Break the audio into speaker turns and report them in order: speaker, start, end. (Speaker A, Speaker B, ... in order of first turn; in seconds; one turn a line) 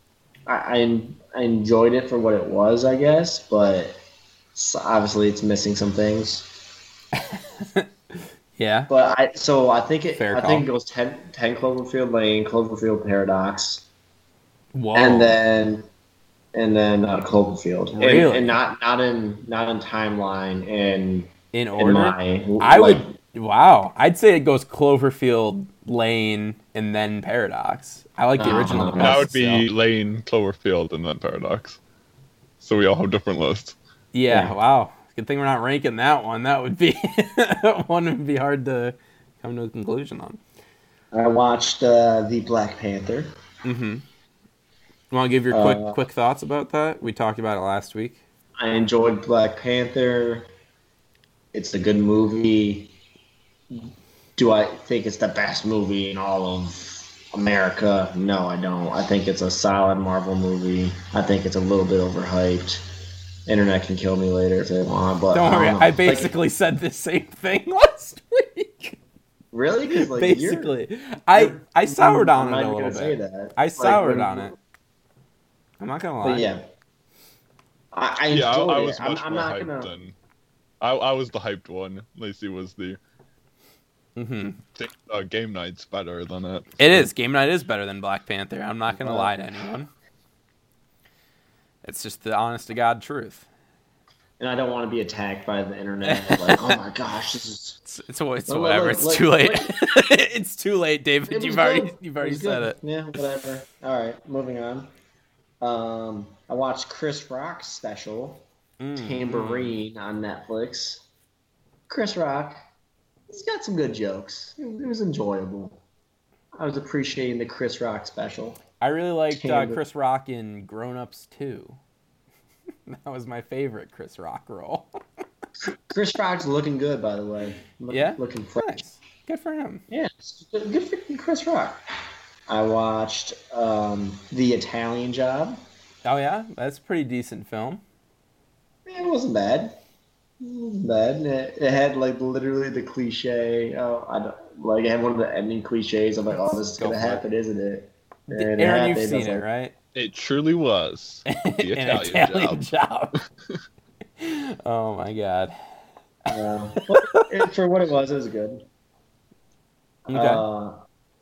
Speaker A: 0.5-4.0
Speaker A: 4.5-6.5
Speaker B: 7.2-7.9
Speaker B: 8.6-8.9
Speaker A: 8.9-13.9
Speaker B: 10.2-10.7
Speaker B: 14.7-15.4
Speaker A: 14.9-15.9
Speaker A: 16.5-23.1
Speaker B: 18.0-18.6
Speaker B: 21.5-29.7
Speaker A: 28.4-29.2
Speaker C: 29.0-31.8
Speaker C: 32.6-33.8
Speaker B: 34.1-40.4
Speaker A: 34.3-34.5
Speaker A: 41.1-43.3
Speaker B: 43.6-44.0
Speaker B: 45.1-48.2
Speaker A: 45.5-46.0
Speaker A: 48.6-50.5
Speaker A: 51.5-53.0
Speaker A: 54.4-62.8
Speaker A: 63.5-66.3
Speaker B: 65.3-69.0
Speaker A: 69.5-70.7
Speaker B: 70.0-74.5
Speaker A: 71.3-74.6
Speaker B: 75.8-76.5
Speaker A: 76.2-76.7
Speaker A: 77.9-79.9
Speaker C: 78.3-80.2
Speaker C: 80.8-83.0
Speaker B: 84.2-84.6
Speaker C: 84.8-87.1
Speaker B: 86.8-89.9
Speaker A: 88.9-89.4
Speaker B: 91.8-93.5
Speaker A: 94.4-97.8
Speaker B: 96.0-96.8
Speaker B: 97.9-102.8
Speaker A: 98.5-99.7
Speaker A: 101.3-104.9
Speaker A: 105.6-108.5
Speaker B: 108.8-109.8
Speaker A: 109.0-111.0
Speaker A: 111.9-112.7
Speaker A: 113.3-115.8
Speaker A: 116.5-118.6
Speaker B: 118.8-121.8
Speaker A: 119.3-119.8
Speaker B: 122.9-124.9
Speaker A: 125.6-128.8
Speaker B: 127.9-129.8
Speaker A: 129.9-131.8
Speaker A: 132.5-135.6
Speaker B: 136.1-137.8
Speaker A: 138.9-139.8
Speaker A: 140.4-149.4
Speaker B: 146.4-147.3
Speaker B: 148.4-149.7
Speaker C: 149.9-152.6
Speaker B: 151.3-153.2
Speaker B: 154.2-155.6
Speaker A: 156.3-158.7
Speaker B: 156.9-157.3
Speaker B: 160.1-160.4
Speaker A: 160.1-160.8